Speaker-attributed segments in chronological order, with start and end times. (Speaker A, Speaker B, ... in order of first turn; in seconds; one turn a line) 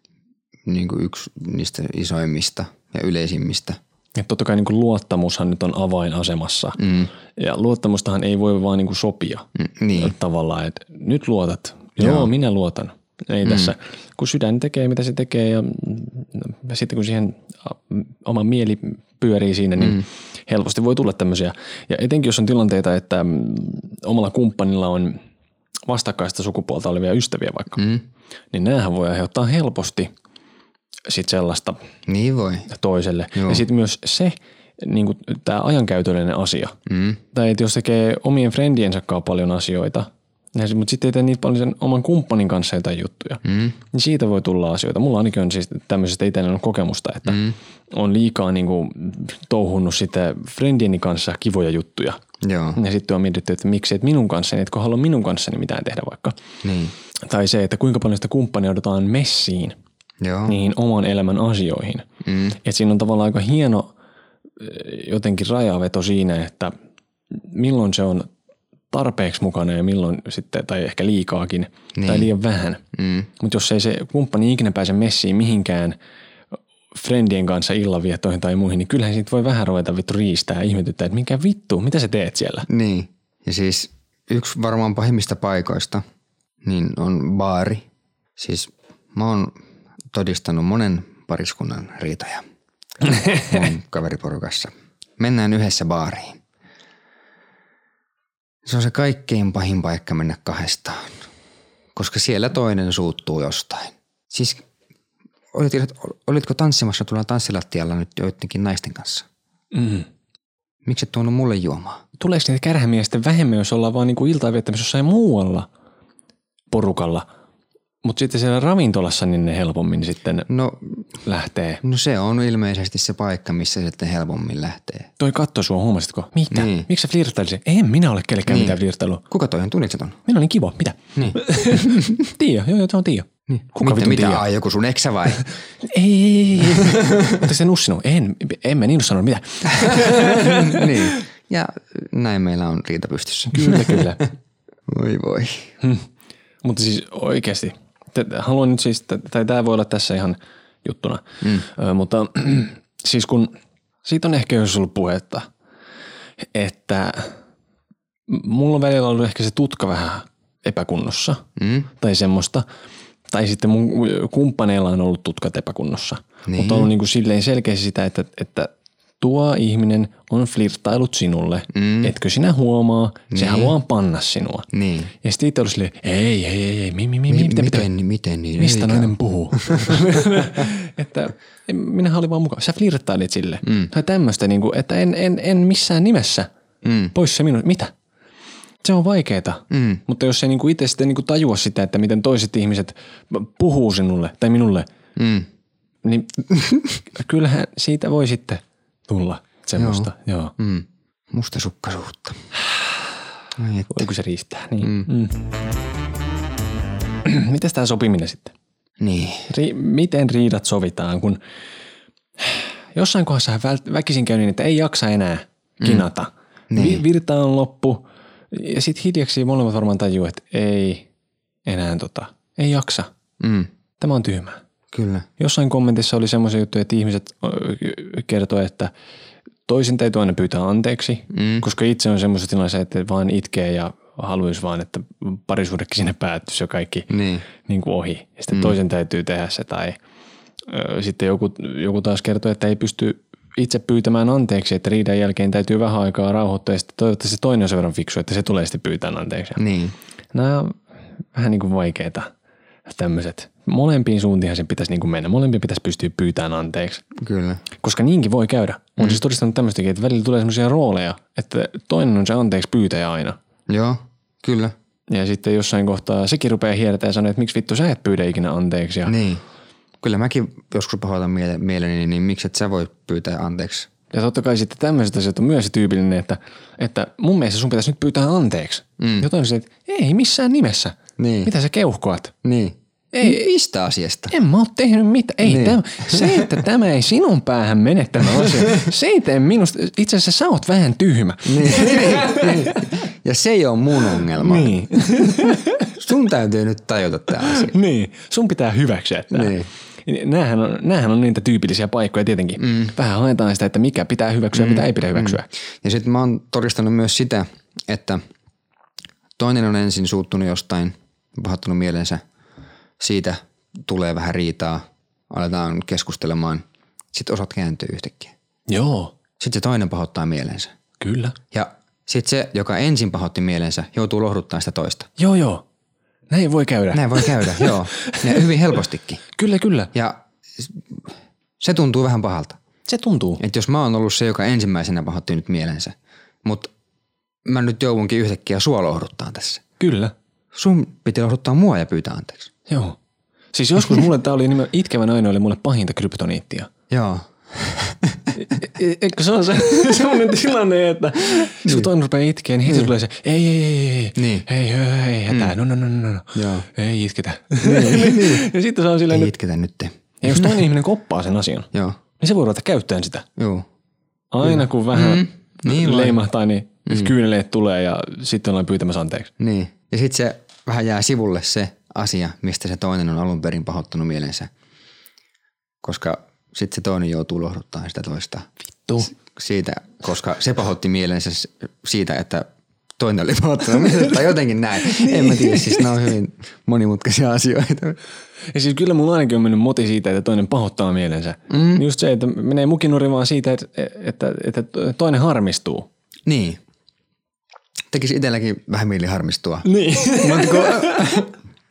Speaker A: 0.7-3.8
Speaker B: 4.2-6.8
Speaker A: 6.8-7.1
Speaker B: 7.3-25.2
Speaker A: 9.6-10.1
Speaker A: 12.0-12.3
Speaker A: 13.4-13.7
Speaker B: 25.9-27.9
Speaker A: 27.8-28.0
Speaker B: 28.5-30.1
Speaker B: 31.1-31.8
Speaker A: 32.1-32.7
Speaker B: 32.7-36.8
Speaker A: 33.4-33.6
Speaker A: 36.9-37.2
Speaker B: 37.3-52.2
Speaker A: 43.5-43.8
Speaker A: 47.3-47.6
Speaker A: 52.4-52.8
Speaker B: 52.8-56.4
Speaker A: 56.6-57.0
Speaker B: 57.2-59.8
Speaker A: 60.2-60.6
Speaker B: 60.5-62.1
Speaker A: 62.2-62.6
Speaker B: 62.6-63.9
Speaker B: 64.6-66.7
Speaker B: 67.4-68.3
Speaker B: 68.9-72.8
Speaker A: 72.0-72.3
Speaker A: 72.9-73.3
Speaker B: 73.4-76.0
Speaker B: 76.9-82.7
Speaker A: 82.7-86.0
Speaker A: 86.6-87.9
Speaker A: 88.4-89.6
Speaker A: 90.1-92.4
Speaker A: 93.1-96.4
Speaker A: 98.7-101.1
Speaker A: 102.0-104.6
Speaker A: 105.5-109.3
Speaker B: 109.7-110.1
Speaker A: 110.8-112.0
Speaker B: 112.2-115.7
Speaker B: 116.7-117.3
Speaker B: 118.0-120.5
Speaker A: 120.5-121.0
Speaker B: 121.2-121.8
Speaker A: 121.8-125.1
Speaker B: 125.2-129.2
Speaker A: 126.5-126.9
Speaker A: 128.5-128.8
Speaker A: 129.3-130.2
Speaker B: 130.3-134.4
Speaker A: 131.2-132.2
Speaker A: 133.5-135.5
Speaker B: 135.8-141.2
Speaker A: 136.7-137.4
Speaker A: 139.8-144.3
Speaker B: 143.5-144.3
Speaker A: 144.9-145.8
Speaker B: 146.6-153.5
Speaker A: 151.4-151.7
Speaker B: 154.0-155.5
Speaker B: 156.5-157.3
Speaker B: 158.3-161.5
Speaker A: 161.6-161.9
Speaker B: 162.0-162.7
Speaker B: 163.3-174.7
Speaker A: 166.5-166.9
Speaker A: 171.7-172.1
Speaker A: 173.3-173.8
Speaker A: 174.7-175.1
Speaker B: 175.2-177.9
Speaker A: 177.3-180.6
Speaker B: 178.6-186.5
Speaker A: 183.7-183.9
Speaker A: 186.8-187.1
Speaker B: 187.1-187.9
Speaker B: 188.8-194.9
Speaker A: 189.7-190.0
Speaker A: 195.2-195.5
Speaker B: 196.0-196.4
Speaker A: 196.5-196.9
Speaker B: 197.1-200.5
Speaker A: 199.8-202.4
Speaker A: 203.6-204.1
Speaker B: 203.9-205.4
Speaker A: 204.8-205.1
Speaker B: 207.2-208.5
Speaker A: 209.0-209.5
Speaker B: 209.5-211.4
Speaker B: 212.4-221.1
Speaker A: 215.8-216.1
Speaker A: 216.7-217.1
Speaker B: 221.7-223.1
Speaker A: 223.4-223.7
Speaker B: 224.0-224.6
Speaker A: 224.9-225.3
Speaker B: 225.4-228.9
Speaker B: 229.7-240.0
Speaker A: 231.3-231.7
Speaker A: 237.1-237.5
Speaker B: 240.7-249.6
Speaker A: 249.6-249.9
Speaker B: 250.3-250.8
Speaker B: 251.3-252.3
Speaker B: 252.9-257.1
Speaker A: 257.2-257.6
Speaker B: 257.8-263.4
Speaker A: 263.7-264.7
Speaker B: 265.1-269.1
Speaker A: 269.1-269.4
Speaker A: 270.0-273.9
Speaker B: 274.1-282.3
Speaker A: 279.0-279.3
Speaker A: 281.2-281.5
Speaker A: 282.4-284.3
Speaker B: 283.1-283.5
Speaker B: 284.3-292.9
Speaker A: 285.4-286.5
Speaker A: 291.4-294.8
Speaker B: 294.4-295.9
Speaker A: 296.0-297.7
Speaker B: 297.4-305.5
Speaker A: 299.3-299.7
Speaker A: 302.6-302.9
Speaker A: 304.5-308.2
Speaker A: 309.4-312.2
Speaker A: 313.0-318.3
Speaker B: 318.7-319.1
Speaker A: 319.4-320.7
Speaker B: 321.0-321.4
Speaker A: 321.5-325.1
Speaker B: 325.2-325.6
Speaker B: 326.3-328.5
Speaker A: 326.9-329.2
Speaker B: 329.3-329.9
Speaker A: 329.9-332.6
Speaker B: 332.9-333.4
Speaker A: 333.4-336.7
Speaker A: 337.4-339.6
Speaker B: 339.8-340.1
Speaker A: 340.5-342.5
Speaker B: 342.7-343.0
Speaker B: 343.5-346.7
Speaker A: 346.9-348.3
Speaker B: 348.4-359.3
Speaker A: 351.6-351.9
Speaker A: 352.7-352.9
Speaker A: 354.2-354.5
Speaker A: 355.3-355.5
Speaker A: 356.3-356.7
Speaker A: 357.6-358.5
Speaker A: 359.1-360.6
Speaker B: 360.2-363.3
Speaker A: 361.7-362.0
Speaker A: 363.4-363.7
Speaker B: 364.3-369.3
Speaker A: 364.4-366.2
Speaker A: 366.9-367.1
Speaker A: 369.4-374.5
Speaker A: 375.8-378.5
Speaker A: 379.0-382.5
Speaker A: 383.0-388.0
Speaker B: 384.9-385.8
Speaker B: 388.5-395.9
Speaker A: 391.5-391.9
Speaker A: 396.3-396.6
Speaker A: 397.9-401.3
Speaker B: 399.6-401.3